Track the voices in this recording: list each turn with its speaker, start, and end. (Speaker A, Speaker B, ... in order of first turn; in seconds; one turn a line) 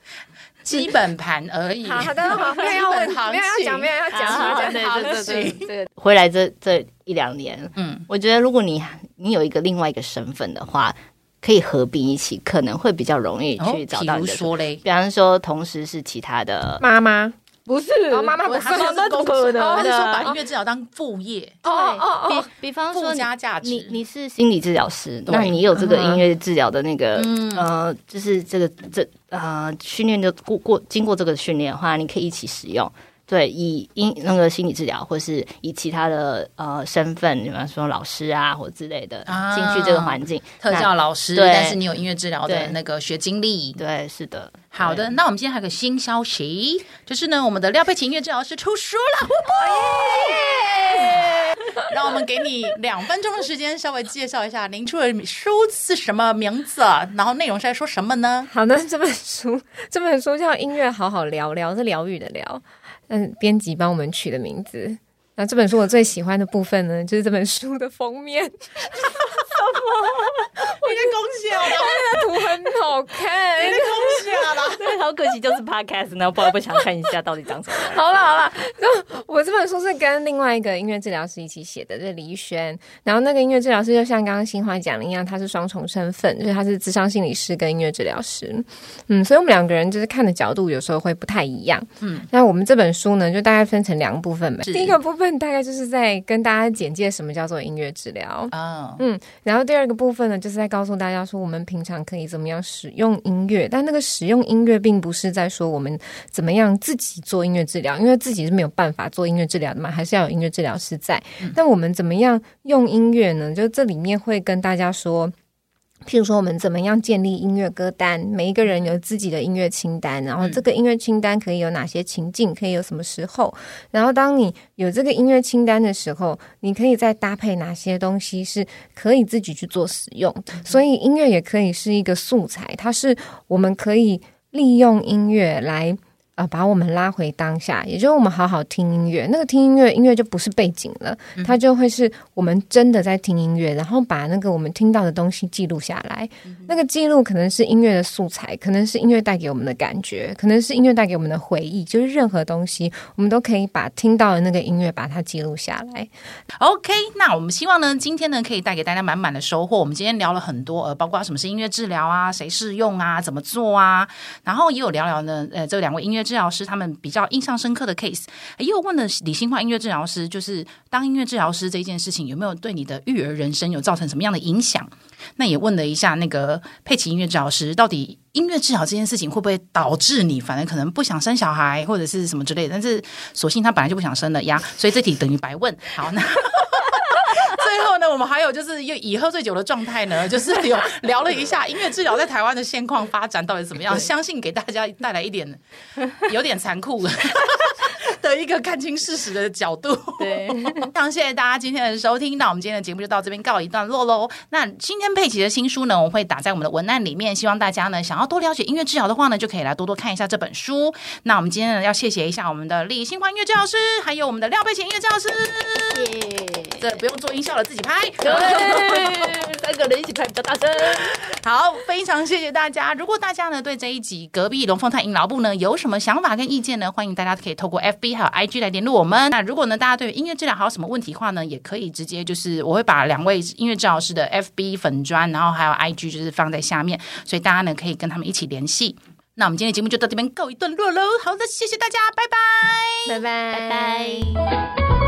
Speaker A: 0.6-5.7
Speaker B: 1.8-5.4
Speaker C: 4.1-16.8
Speaker A: 7.8-8.0
Speaker A: 13.6-14.8
Speaker B: 16.8-17.3
Speaker C: 17.6-20.3
Speaker B: 18.1-20.3
Speaker A: 18.4-21.6
Speaker B: 21.6-22.5
Speaker C: 21.6-41.8
Speaker A: 22.9-24.0
Speaker A: 25.3-26.1
Speaker B: 25.8-26.2
Speaker A: 27.1-27.7
Speaker A: 39.3-43.8
Speaker C: 42.5-42.8
Speaker C: 43.8-45.1
Speaker A: 44.7-58.5
Speaker B: 49.6-50.7
Speaker C: 49.8-51.1
Speaker B: 58.5-69.0
Speaker C: 69.6-70.5
Speaker A: 70.8-72.2
Speaker B: 71.6-74.2
Speaker A: 73.5-74.8
Speaker C: 74.7-78.2
Speaker B: 77.8-115.3
Speaker A: 92.0-92.3
Speaker A: 94.6-95.0
Speaker A: 98.5-99.0
Speaker B: 116.0-156.1
Speaker A: 146.4-146.7
Speaker A: 156.6-195.6
Speaker A: 196.2-216.1
Speaker C: 200.2-200.9
Speaker C: 215.9-216.9
Speaker A: 216.8-219.3
Speaker C: 218.2-221.2
Speaker A: 220.9-243.2
Speaker B: 243.1-244.4
Speaker C: 243.5-244.5